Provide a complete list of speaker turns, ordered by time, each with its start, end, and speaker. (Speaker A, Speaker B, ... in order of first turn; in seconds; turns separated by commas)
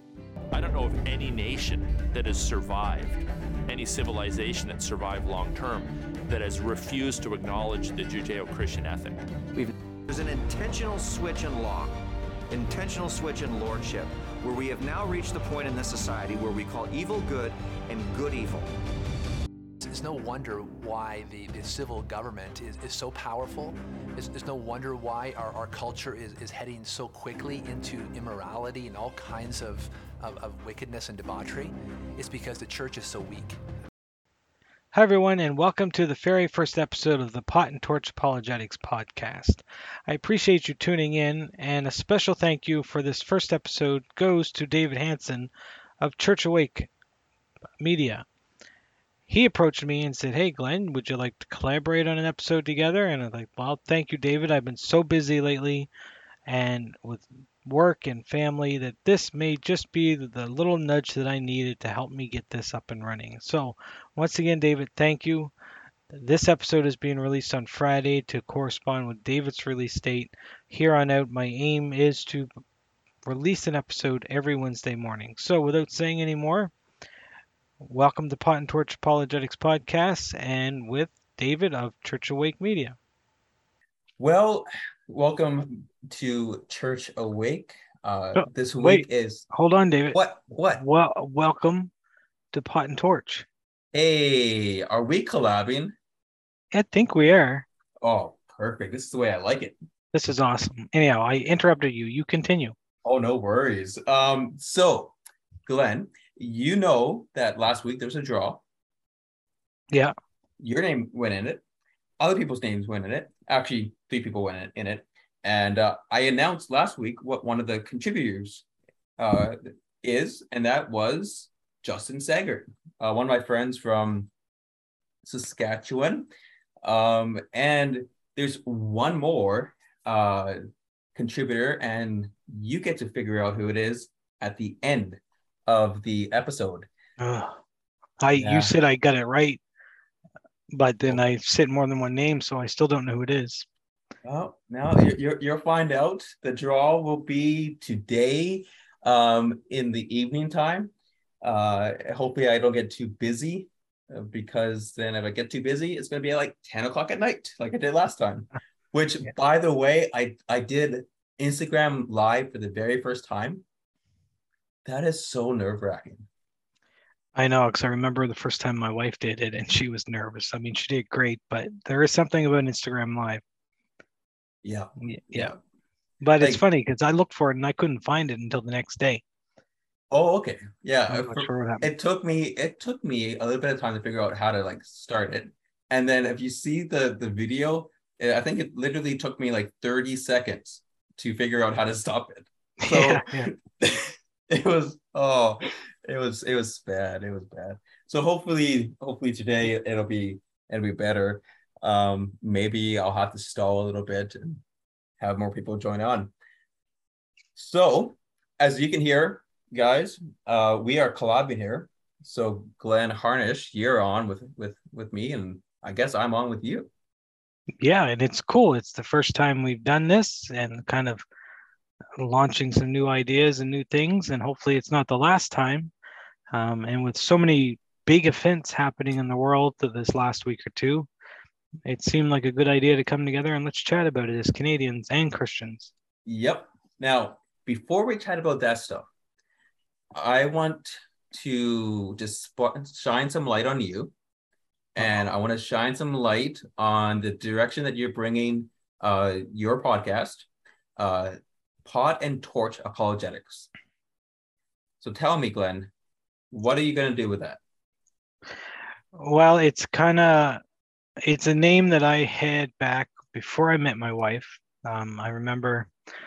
Speaker A: 0.5-9.2, Speaker B: 10.1-12.0, Speaker B: 12.5-18.7, Speaker C: 19.8-33.6, Speaker D: 34.9-46.9, Speaker D: 47.8-48.2, Speaker D: 49.3-55.9, Speaker D: 56.5-65.5, Speaker D: 66.1-72.5, Speaker D: 73.3-76.7, Speaker D: 77.8-83.0, Speaker E: 84.2-89.5, Speaker D: 88.3-90.2, Speaker E: 90.1-90.8, Speaker D: 90.8-91.9, Speaker D: 92.5-93.5, Speaker E: 93.9-96.0, Speaker D: 96.7-97.7, Speaker E: 98.0-99.8, Speaker D: 100.1-102.8, Speaker E: 103.0-105.2, Speaker E: 105.7-108.6, Speaker E: 110.6-111.6, Speaker E: 112.2-118.7, Speaker E: 119.2-124.3, Speaker E: 125.2-126.3, Speaker E: 126.8-130.6, Speaker E: 131.2-136.9, Speaker D: 137.2-137.6, Speaker D: 138.2-139.6, Speaker E: 138.3-138.8, Speaker D: 140.7-143.7, Speaker E: 144.2-163.6, Speaker E: 164.8-166.3, Speaker D: 167.3-173.4, Speaker E: 174.6-175.6, Speaker D: 175.0-175.6, Speaker D: 176.2-179.2, Speaker E: 180.1-204.6, Speaker D: 181.1-181.9, Speaker D: 192.8-193.5, Speaker E: 205.2-206.3, Speaker E: 207.6-216.9, Speaker D: 217.8-221.2, Speaker D: 222.2-225.9, Speaker D: 226.5-231.1, Speaker D: 231.8-235.9, Speaker E: 236.2-239.1, Speaker E: 240.1-244.1, Speaker E: 244.9-253.7, Speaker E: 255.0-255.9, Speaker E: 256.5-257.6, Speaker D: 259.1-260.6, Speaker D: 261.2-265.9